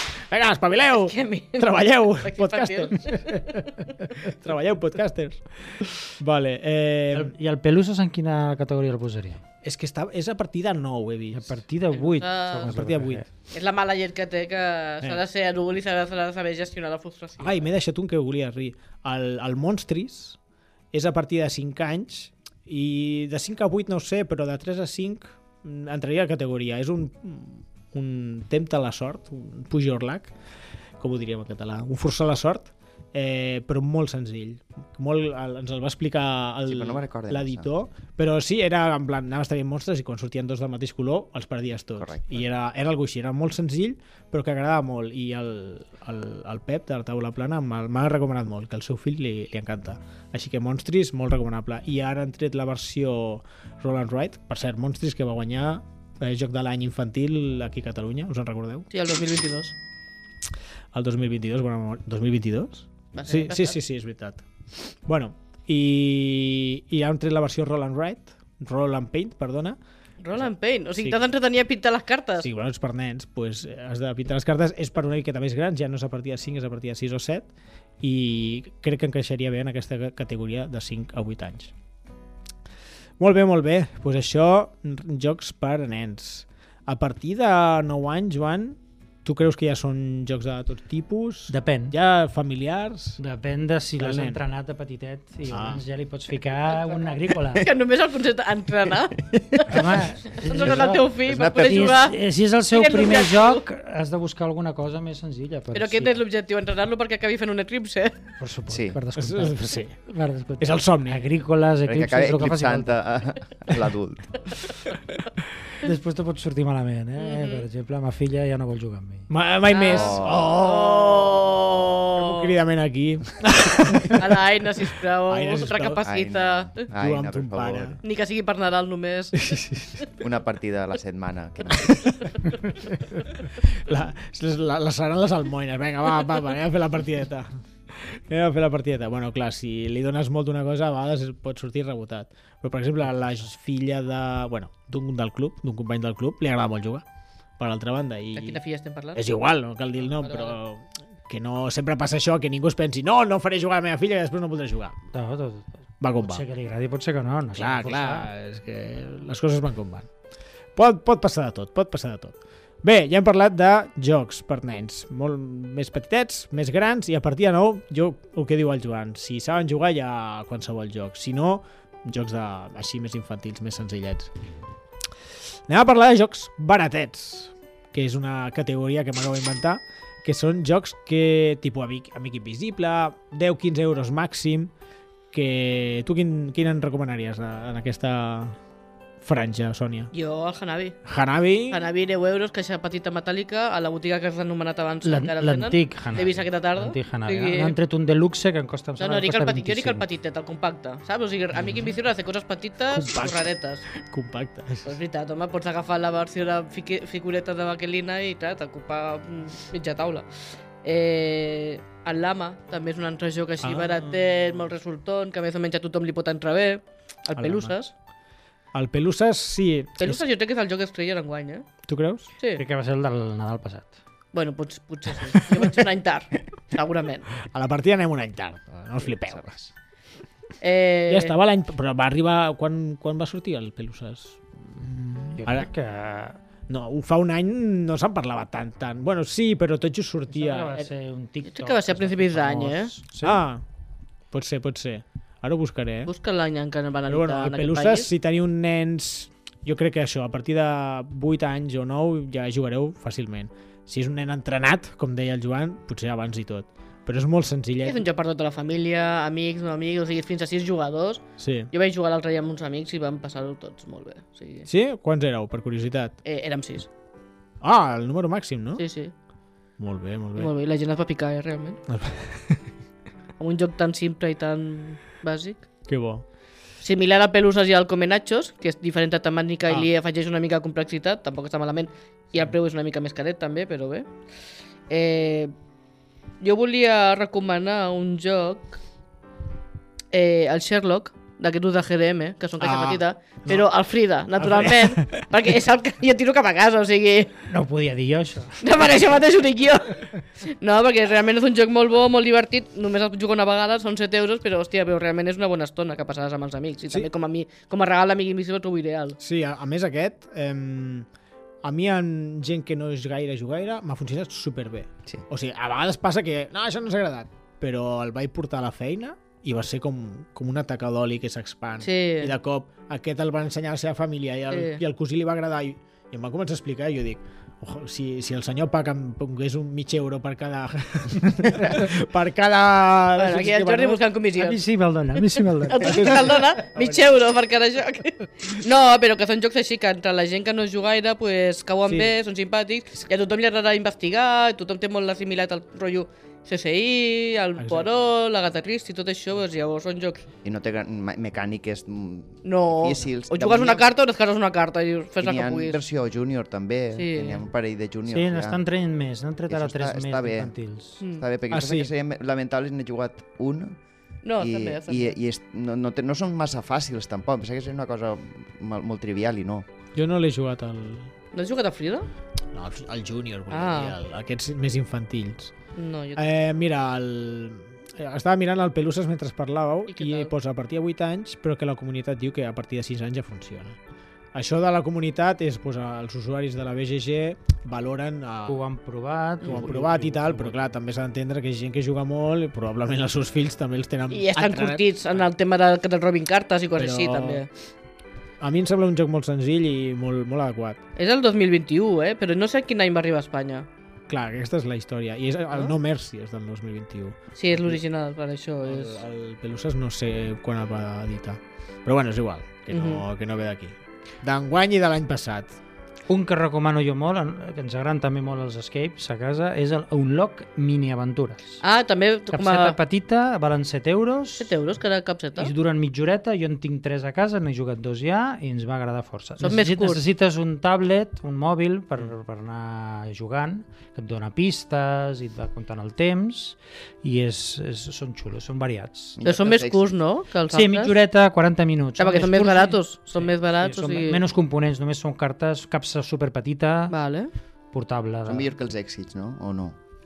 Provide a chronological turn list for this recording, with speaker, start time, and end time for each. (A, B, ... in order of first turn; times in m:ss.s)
0:00.2-0:07.3 A
0:01.0-0:03.9 B
0:07.1-0:09.4 C
0:09.6-0:11.6 A
0:11.3-0:13.2 C
0:11.9-0:12.7 B
0:12.6-0:13.2 A
0:13.5-0:17.6 B
0:17.4-0:20.4 A
0:20.9-0:30.3 A
0:31.0-0:58.9 A
0:36.6-0:37.7 D
0:42.0-0:42.4 D
0:58.9-0:59.7 B
1:00.9-1:09.8 A
1:03.1-1:03.8 B
1:10.2-1:12.5 B
1:10.4-1:11.2 A
1:12.4-1:17.5 A
1:18.0-1:21.7 A
1:23.2-1:33.2 A
1:31.5-1:32.0 C
1:33.2-1:37.7 C
1:34.0-1:34.4 A
1:35.5-1:35.8 A
1:36.7-1:42.2 B
1:39.7-1:46.2 C
1:40.5-1:42.0 D
1:42.7-1:43.6 B
1:45.7-1:48.2 B
1:48.4-1:53.0 C
1:48.7-1:49.0 D
1:49.1-1:50.0 A
1:50.6-1:51.3 A
1:51.8-1:54.7 D
1:55.8-1:59.3 C
1:57.2-1:57.6 B
1:59.3-2:06.0 A
1:59.7-2:02.5 B
1:59.8-2:00.4 D
2:04.0-2:06.9 B
2:06.0-2:08.0 D
2:06.9-2:08.0 A
2:08.0-2:09.5 B
2:09.4-2:10.0 A
2:10.2-2:12.5 D
2:13.6-2:27.0 A
2:27.6-2:28.6 A
2:28.3-2:29.2 B
2:29.1-2:35.0 A
2:30.0-2:30.6 B
2:35.1-2:38.3 C
2:36.0-2:36.4 A
2:37.5-2:40.1 A
2:40.8-2:54.3 A
2:55.7-3:04.7 A
3:05.3-3:08.6 A
3:09.2-3:10.1 A
3:10.1-3:11.0 B
3:11.0-3:11.8 A
3:11.7-3:17.8 B
3:15.0-3:20.0 C
3:19.0-3:23.8 B
3:21.5-3:21.9 A
3:22.9-3:25.0 A
3:24.8-3:30.3 B
3:30.8-3:37.9 B
3:33.6-3:34.2 A
3:37.4-3:37.8 A
3:38.7-3:40.2 A
3:40.0-3:41.7 B
3:41.8-3:42.3 A
3:42.5-3:44.0 C
3:44.3-3:47.4 B
3:47.4-3:49.7 A
3:50.6-3:51.3 B
3:51.1-3:55.7 A
3:55.4-3:56.4 C
3:56.7-4:00.7 A
4:00.3-4:03.4 C
4:01.5-4:02.9 B
4:03.2-4:03.6 A
4:04.3-4:06.1 A
4:06.0-4:08.1 B
4:07.1-4:18.0 A
4:17.8-4:24.6 B
4:21.4-4:21.7 A
4:24.6-4:26.1 A
4:26.2-4:26.9 B
4:27.6-4:28.8 A
4:28.8-4:29.1 B
4:29.8-4:30.5 A
4:30.4-4:31.8 B
4:31.9-4:32.6 A
4:33.4-4:35.7 B
4:35.9-4:36.2 A
4:36.8-4:44.1 B
4:44.9-4:45.5 B
4:46.4-4:48.8 B
4:50.1-4:57.4 B
4:52.6-4:53.7 A
4:54.4-4:55.3 A
4:57.5-4:58.6 C
4:58.6-5:09.2 B
5:09.2-5:11.1 A
5:11.6-5:34.0 A
5:21.8-5:22.3 B
5:24.5-5:24.8 B
5:33.2-5:34.6 B
5:34.4-5:36.3 C
5:35.6-5:50.2 B
5:35.8-5:37.0 A
5:41.9-5:42.1 A
5:47.6-5:47.9 A
5:50.4-5:53.8 D
5:52.4-5:55.8 B
5:55.2-5:58.6 D
5:56.9-5:57.4 B
5:58.1-6:01.0 C
5:59.5-6:00.5 D
6:01.0-6:01.2 B
6:01.1-6:03.8 D
6:01.5-6:01.9 A
6:04.2-6:05.2 B
6:04.4-6:09.6 D
6:09.9-6:11.1 A
6:11.3-6:12.1 B
6:12.5-6:15.5 A
6:13.5-6:14.0 B
6:15.8-6:16.4 B
6:16.2-6:23.8 A
6:19.9-6:20.3 B
6:24.3-6:28.6 A
6:28.4-6:30.7 C
6:29.4-6:34.8 A
6:34.1-6:37.5 B
6:36.8-6:37.4 A
6:38.4-6:40.8 A
6:41.0-6:43.7 B
6:44.1-6:47.8 A
6:47.4-6:49.0 B
6:48.6-6:55.5 A
6:52.7-6:53.0 B
6:56.1-7:01.6 C
7:01.6-7:02.8 B
7:02.3-7:04.6 C
7:04.4-7:05.5 B
7:05.4-7:19.2 C
7:09.4-7:10.0 B
7:19.2-7:19.9 D
7:19.2-7:20.9 B
7:20.5-7:26.9 C
7:22.0-7:24.2 B
7:26.9-7:27.3 B
7:27.7-7:28.5 C
7:28.2-7:29.8 D